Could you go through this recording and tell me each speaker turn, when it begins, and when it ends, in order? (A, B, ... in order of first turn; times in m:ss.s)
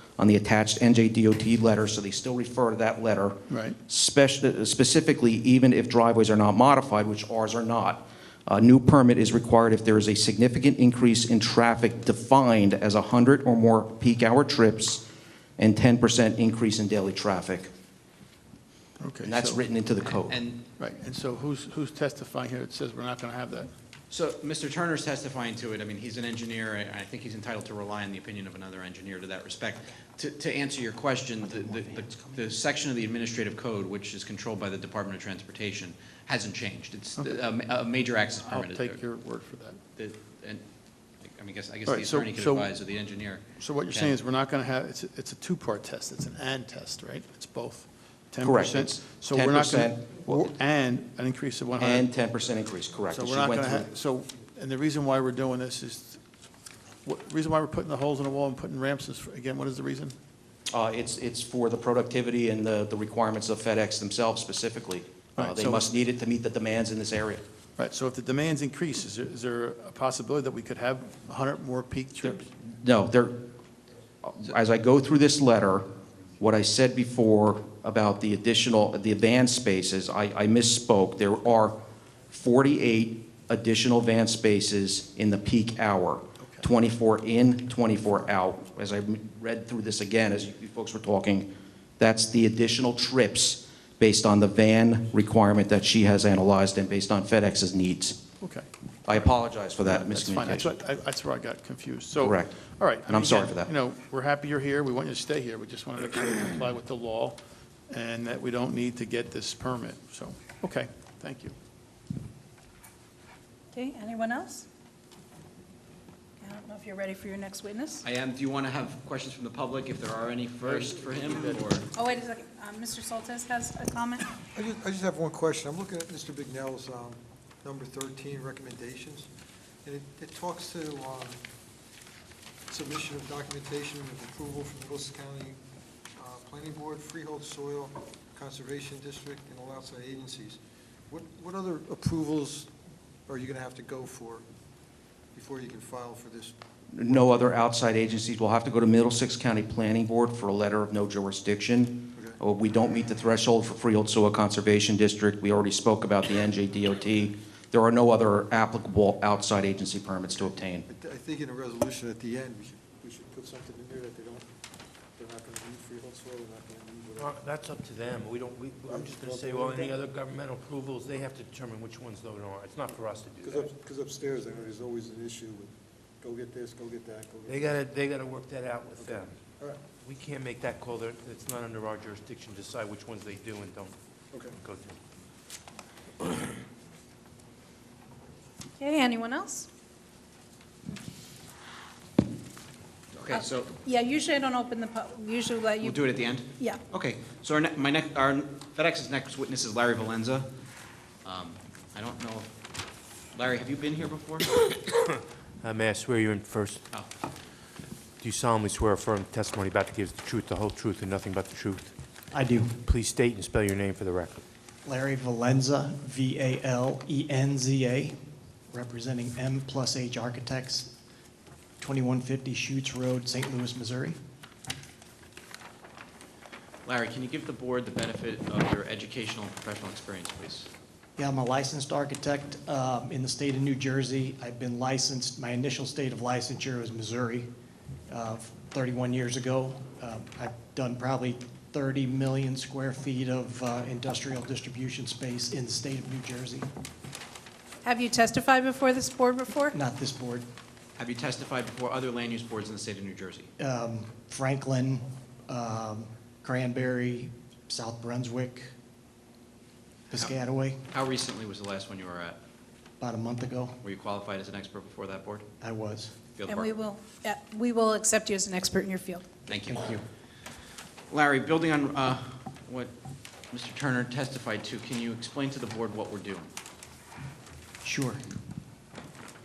0:00.2-0:15.0 A
0:03.5-0:03.8 B
0:15.6-0:17.7 A
0:19.0-0:19.6 B
0:19.2-0:20.4 A
0:20.0-0:20.6 C
0:20.8-0:23.7 B
0:24.1-0:39.0 C
0:37.2-0:37.5 B
0:38.4-0:39.8 B
0:40.0-0:40.6 C
0:41.2-0:44.2 C
0:41.9-0:42.7 B
0:43.6-0:52.1 B
0:48.4-0:50.5 A
0:51.8-0:53.9 A
0:53.1-0:56.2 B
0:57.0-1:00.2 B
1:00.7-1:07.4 A
1:05.4-1:05.9 B
1:07.8-1:12.5 B
1:12.3-1:13.4 A
1:14.2-1:15.9 A
1:16.4-1:21.8 A
1:22.3-1:31.5 A
1:26.4-1:26.7 B
1:32.0-1:38.2 A
1:38.4-1:39.2 B
1:39.1-1:40.7 A
1:39.8-1:47.4 B
1:42.2-1:42.5 A
1:43.1-1:43.7 A
1:47.9-1:51.6 B
1:53.7-1:54.7 D
1:56.4-1:58.0 D
1:58.0-2:01.9 C
2:01.2-2:01.6 E
2:01.9-2:04.3 D
2:04.5-2:09.3 E
2:09.8-2:11.4 E
2:12.7-2:15.6 E
2:16.2-2:22.7 E
2:23.3-2:24.4 E
2:25.4-2:26.5 E
2:26.9-2:40.9 A
2:27.1-2:27.4 E
2:40.9-2:44.5 E
2:45.2-2:47.4 E
2:47.2-2:53.7 F
2:48.9-2:50.0 E
2:53.4-2:57.8 E
2:57.5-2:59.4 F
2:59.0-2:59.8 E
3:00.0-3:04.0 F
3:04.3-3:04.6 E
3:04.6-3:05.0 F
3:08.8-3:09.7 D
3:13.1-3:13.7 C
3:13.3-3:16.0 D
3:15.8-3:20.5 C
3:21.2-3:22.5 C
3:23.3-3:24.6 C
3:24.9-3:26.8 F
3:28.2-3:31.9 F
3:32.3-3:32.8 G
3:32.8-3:34.4 F
3:34.8-3:38.2 G
3:38.7-3:40.9 G
3:41.8-3:44.2 G
3:46.8-3:50.7 C
3:51.2-3:57.5 G
3:58.1-4:06.7 G
4:07.8-4:09.8 D
4:09.7-4:10.5 G
4:11.0-4:13.5 C
4:13.6-4:18.7 G
4:20.1-4:20.8 G
4:20.9-4:22.4 C
4:23.0-4:23.8 G
4:23.8-4:25.5 C
4:25.6-4:26.1 G
4:26.4-4:26.7 C
4:26.5-4:29.3 D
4:29.5-4:30.0 C
4:29.5-4:30.0 G
4:31.1-4:32.9 C
4:33.5-4:36.5 C
4:37.8-4:38.2 G